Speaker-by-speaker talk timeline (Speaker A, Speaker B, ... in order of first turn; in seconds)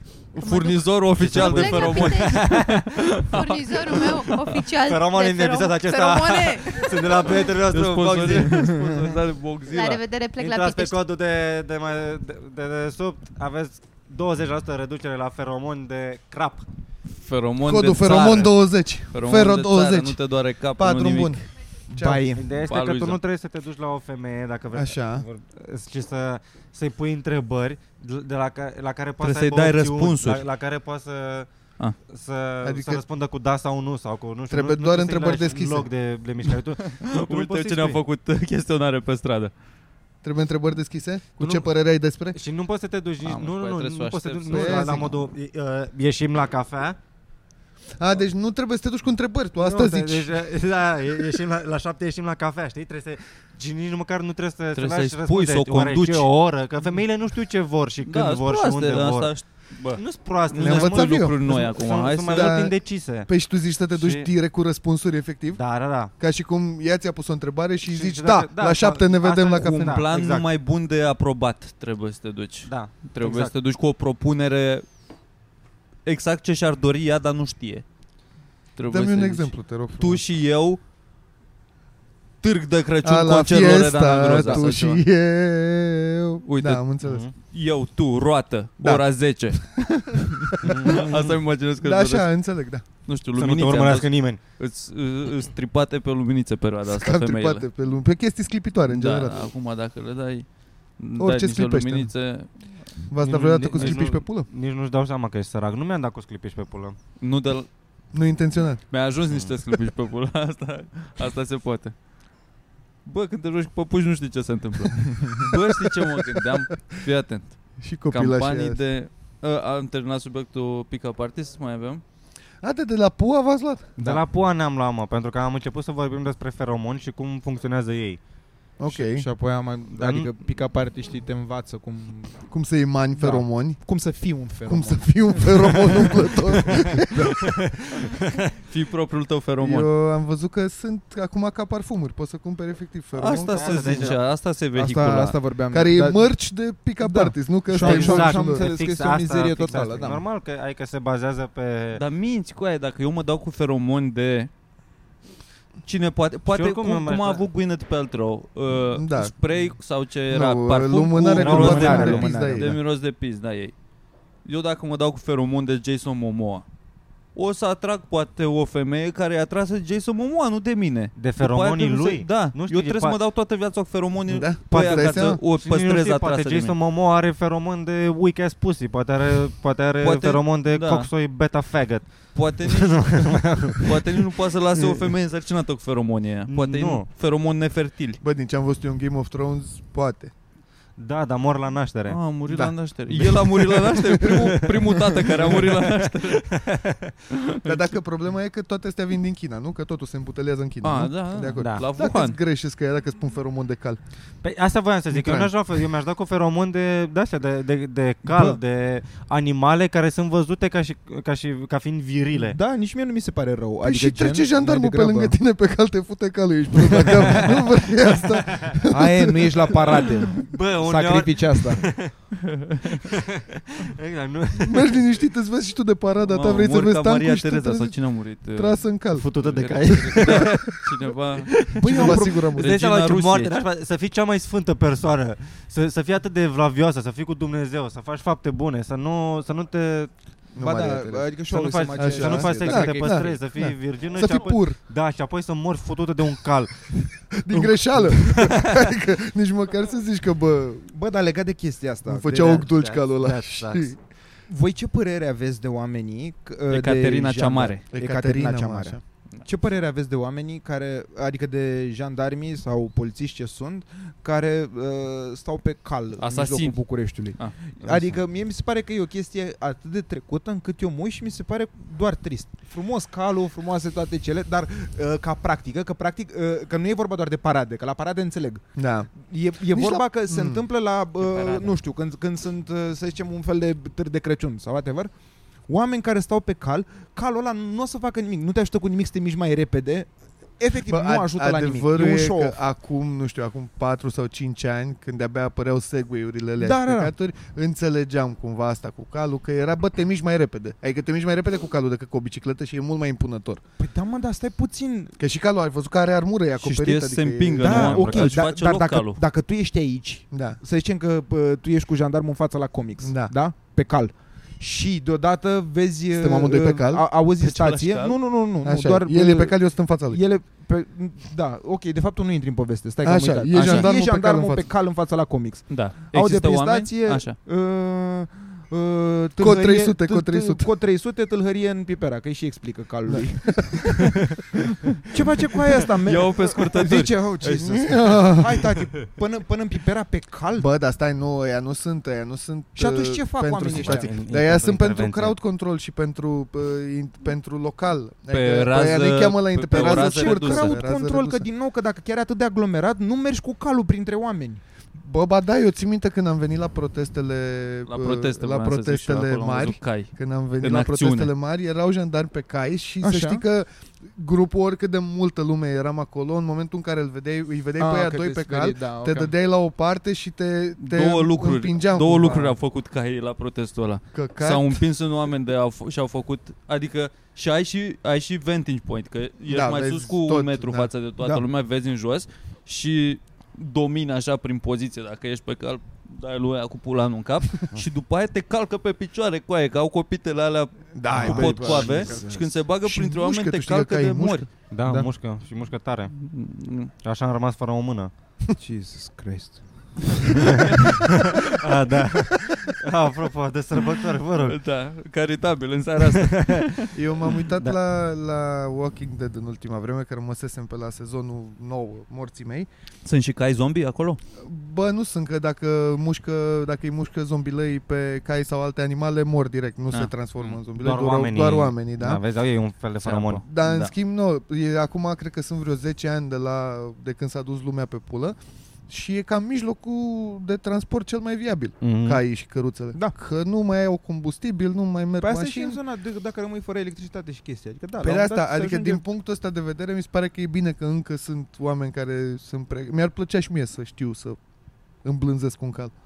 Speaker A: 0.3-7.4, 9.7-11.0
Speaker B: 0.3-4.6, 7.7-10.0, 17.1-21.4, 22.6-23.2, 29.2-30.4, 36.8-39.5, 43.2-45.1, 54.7-56.3, 58.0-62.6, 69.6-74.8, 76.0-77.8, 78.8-80.8, 82.4-85.0, 86.5-89.9, 90.8-92.4, 93.0-97.7, 98.9-102.9, 103.7-104.0, 107.2-107.7, 108.9-111.9, 113.0-122.0, 138.7-139.9, 143.1-145.4, 151.9-154.5, 155.8-163.7, 164.4-166.6, 167.3-176.8, 180.0-181.1, 182.3-188.2, 192.1-196.6, 197.3-197.9, 200.8-202.4, 222.5-222.9, 226.2-233.6, 256.7-257.8, 266.2-267.7, 306.6-309.2, 317.4-318.2, 323.5-323.9, 325.7-327.4, 336.0-337.8, 348.3-350.8, 357.9-361.3, 370.8-394.5, 396.1-396.9, 404.4-406.9, 413.0-414.2, 419.9-420.6, 423.0-423.9
Speaker C: 1.2-3.0, 4.8-8.7, 10.4-16.6, 22.3-31.5, 32.0-38.0, 41.4-41.6, 42.3-47.0, 49.6-59.4, 59.9-63.3, 63.9-64.3, 65.5-66.1, 67.8-70.5, 72.6-73.5, 87.0-87.3, 90.6-91.4, 93.3-94.4, 103.2-107.0, 109.3-109.5, 124.0-128.2, 129.9-130.3, 137.4-138.5, 143.5-144.2, 147.7-152.0, 156.5-157.4, 161.3-162.2, 171.2-173.2, 174.7-184.0, 186.5-187.1, 190.9-192.3, 194.5-194.8, 195.4-197.1, 201.6-201.9, 204.4-212.6, 217.2-217.5, 218.1-218.8, 220.4-222.1, 223.0-225.1, 229.1-230.8, 231.4-232.0, 232.6-240.1, 241.5-247.1, 248.0-248.7, 252.6-253.9, 307.7-308.3, 343.7-345.4, 394.7-396.1, 397.0-398.1, 400.5-404.6, 406.1-406.7, 420.7-423.4, 431.8-432.2
Speaker D: 8.4-9.2, 21.9-22.4, 84.4-84.7, 128.8-132.4, 133.2-137.5, 144.7-146.3, 147.0-150.2, 161.4-162.8, 212.3-215.4, 218.9-221.9, 231.8-232.5, 240.6-243.4, 250.9-252.7, 254.5-285.1, 285.7-292.6, 296.6-297.1, 303.8-305.1, 307.6-334.1, 335.1-340.7, 342.8-344.1, 349.7-354.6, 363.0-363.4, 367.8-369.3, 391.1-392.5, 398.6-400.6, 435.2-439.0
Speaker E: 17.6-20.2, 20.8-22.3, 24.7-25.2, 32.6-33.0, 34.5-35.9, 40.2-42.4, 44.5-45.1, 48.0-50.4, 60.5-70.0, 78.9-80.2, 83.0-87.2, 88.8-91.1, 91.8-92.8, 96.8-99.5, 101.2-102.1, 103.1-104.5, 108.1-108.8, 117.8-118.8, 122.6-124.0, 128.8-129.2, 132.5-133.8, 134.7-137.5, 139.6-144.2, 145.7-148.6, 158.9-159.3, 160.3-162.7, 174.3-175.4, 188.2-190.3, 192.5-194.6, 197.6-204.0, 205.1-205.5, 213.8-220.1, 224.6-229.3, 231.8-232.7, 240.5-244.8, 247.1-250.9, 252.1-254.0, 257.9-259.0, 278.8-279.1, 279.6-280.6, 290.9-303.6, 305.2-308.2, 310.3-310.6, 313.0-313.3, 316.1-317.0, 318.6-320.2, 323.0-324.6, 329.4-330.7, 333.1-333.9, 337.6-338.7, 340.6-351.4, 354.9-372.6, 374.1-374.8, 379.5-380.9, 390.9-392.2, 392.8-394.5, 406.9-412.7, 414.4-422.2, 423.4-428.4, 428.9-435.8, 438.0-444.4, 445.0-445.9